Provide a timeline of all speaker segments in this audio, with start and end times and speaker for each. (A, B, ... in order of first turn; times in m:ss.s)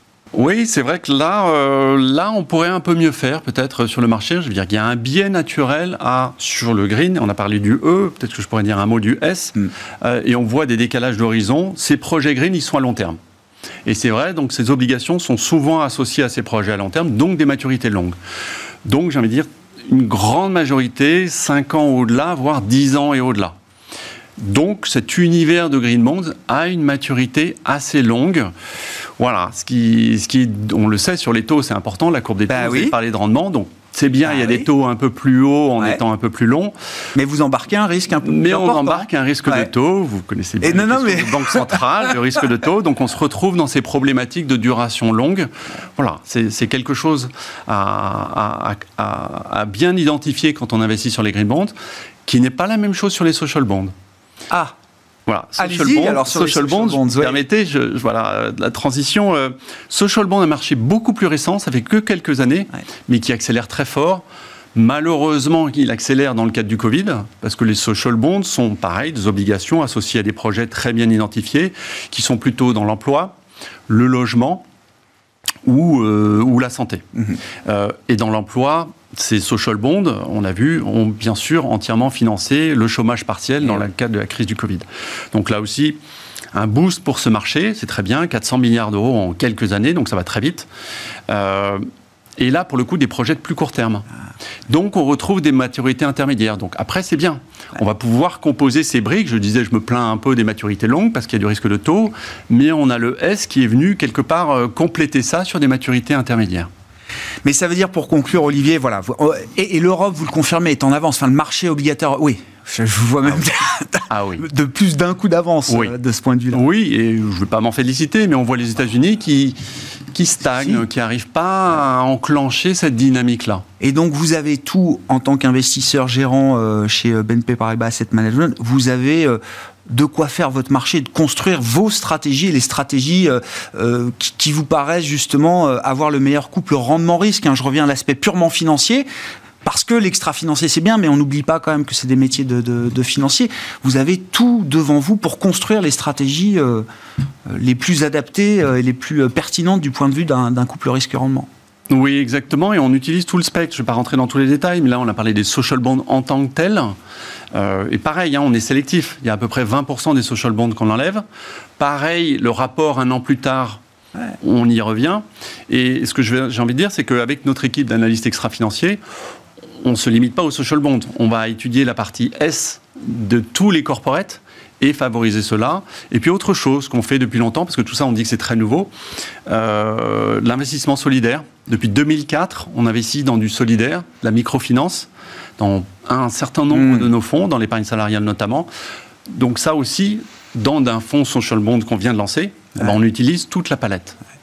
0:00.4-0:13.2 A
0:13.9-0:18.2 A
0:18.8-0:23.6 A
0:24.4-0:28.5 A
0:29.2-0:36.7 A
0:32.5-0:33.0 B
0:34.2-0:34.7 B
0:37.2-0:39.7 B
0:38.2-0:51.7 A
0:40.6-0:42.2 B
0:52.2-0:53.9 A
0:55.3-1:04.2 A
0:55.6-0:57.4 B
1:04.8-1:13.4 A
1:13.9-1:14.6 A
1:15.6-1:17.0 A
1:17.6-1:26.0 A
1:26.5-1:30.7 A
1:31.3-1:31.8 A
1:32.4-1:34.1 A
1:34.7-1:46.7 A
1:47.4-1:56.6 B
1:54.1-1:54.4 A
1:55.7-1:55.9 A
1:56.5-1:59.6 A
2:00.1-2:03.6 A
2:03.8-2:19.1 B
2:19.6-2:26.9 B
2:27.5-2:31.5 B
2:31.9-2:37.0 A
2:37.5-2:41.2 A
2:41.8-2:43.8 A
2:44.4-2:49.0 A
2:49.8-2:58.9 A
2:59.5-3:08.7 A
3:06.7-3:07.1 B
3:09.3-3:14.2 A